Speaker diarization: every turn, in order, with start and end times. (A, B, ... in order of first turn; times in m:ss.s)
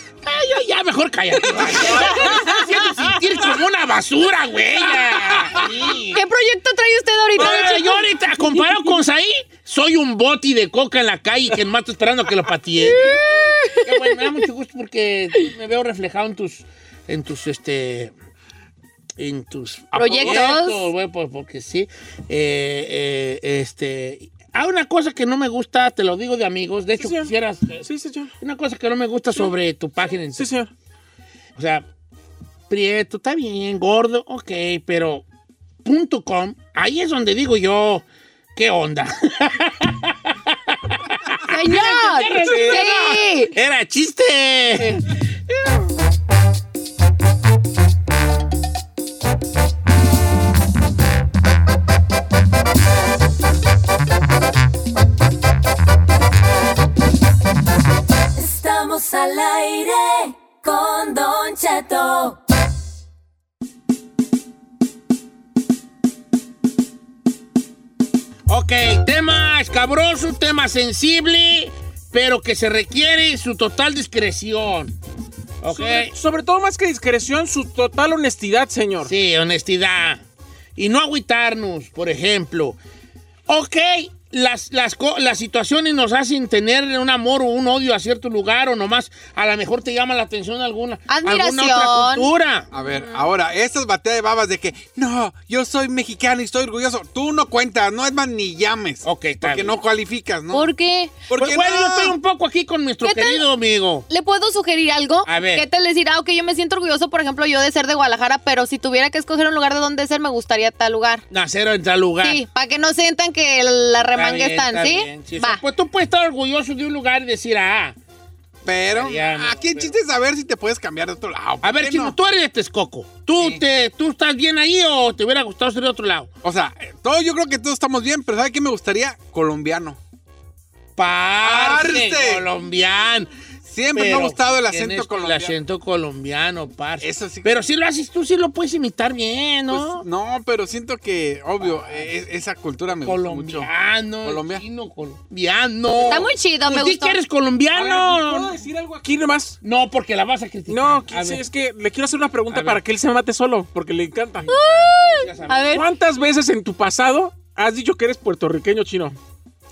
0:00.2-0:06.2 A
0:06.1-0:08.0 B
0:07.4-0:18.1 A
0:12.8-0:14.1 B
0:19.2-0:27.9 A
0:19.9-0:20.3 C
0:20.0-0:20.8 B
0:27.0-0:27.3 D
0:27.8-0:28.3 D
0:28.4-0:30.5 A
0:30.4-0:30.7 D
0:31.6-0:31.8 A
0:32.7-0:35.2 A
0:35.8-0:38.0 A
0:38.6-0:45.0 A
0:41.5-0:43.5 B
0:42.4-0:42.9 D
0:58.4-1:02.4 E
1:08.5-1:15.0 A
1:15.6-1:16.1 A
1:15.7-1:19.1 D
1:19.0-1:20.2 A
1:20.8-1:22.8 A
1:23.5-1:32.7 A
1:31.1-1:32.3 B
1:32.7-1:40.7 C
1:39.0-1:39.8 A
1:40.5-1:41.2 B
1:41.3-1:42.2 C
1:41.3-1:44.1 A
1:43.0-1:43.4 B
1:44.1-1:51.2 B
1:45.2-1:45.7 A
1:51.3-1:52.4 A
1:52.2-1:55.6 B
1:54.1-1:58.0 A
1:58.6-2:02.2 C
1:58.9-2:00.0 A
2:01.6-2:06.3 A
2:06.4-2:10.0 C
2:11.0-2:13.3 A
2:11.4-2:12.5 C
2:13.6-2:15.6 C
2:13.9-2:20.1 A
2:17.0-2:17.7 C
2:19.7-2:23.7 C
2:21.6-2:22.0 A
2:23.0-2:28.5 A
2:24.2-2:24.6 C
2:26.1-2:27.2 B
2:27.7-2:29.6 D
2:29.6-2:31.4 A
2:30.7-2:34.5 D
2:32.5-2:32.8 A
2:34.5-2:35.8 B
2:34.5-2:35.8 A
2:35.7-2:39.2 D